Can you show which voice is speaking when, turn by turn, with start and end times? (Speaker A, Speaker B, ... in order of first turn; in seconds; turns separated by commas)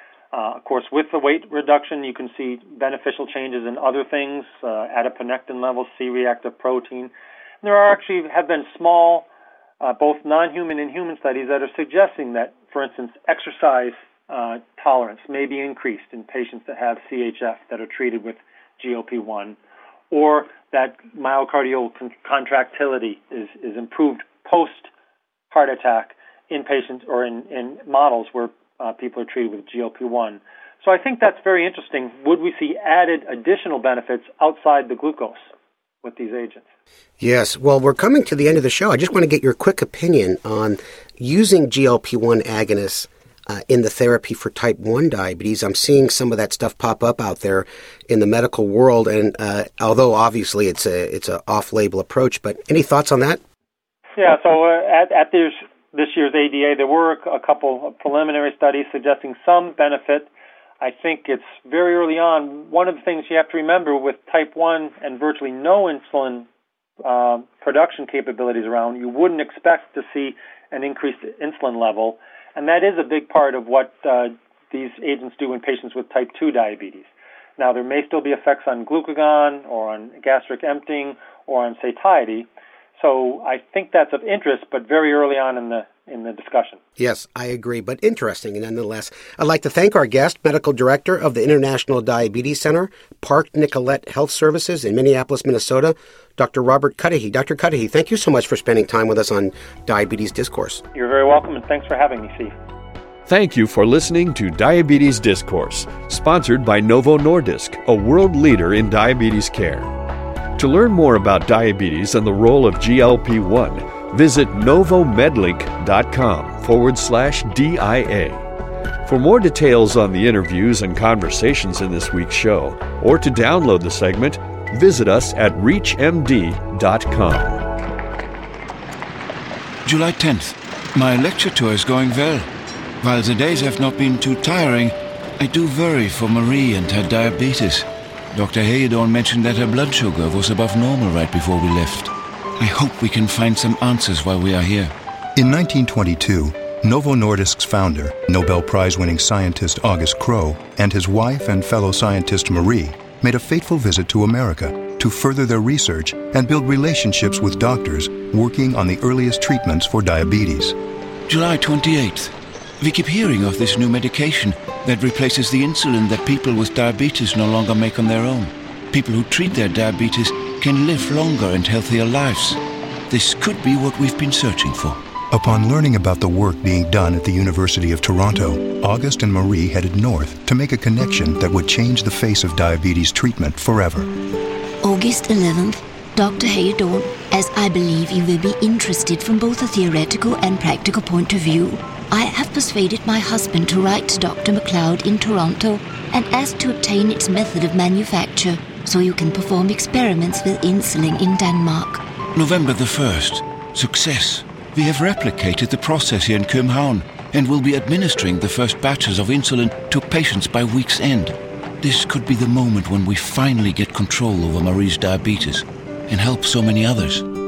Speaker A: 0.3-9.3, Speaker A: 9.8-19.6, Speaker A: 20.1-24.9, Speaker A: 25.5-35.5, Speaker A: 36.0-36.7, Speaker B: 37.2-53.4, Speaker A: 54.2-60.3, Speaker A: 60.8-66.5, Speaker A: 67.0-86.8, Speaker B: 87.0-100.8, Speaker A: 100.9-102.6, Speaker C: 103.3-109.9, Speaker C: 110.6-118.5, Speaker C: 119.1-127.6, Speaker D: 129.8-132.5, Speaker D: 133.0-144.9, Speaker E: 145.4-160.8, Speaker D: 161.3-175.0, Speaker E: 175.3-184.1, Speaker F: 184.8-202.0, Speaker D: 202.3-217.3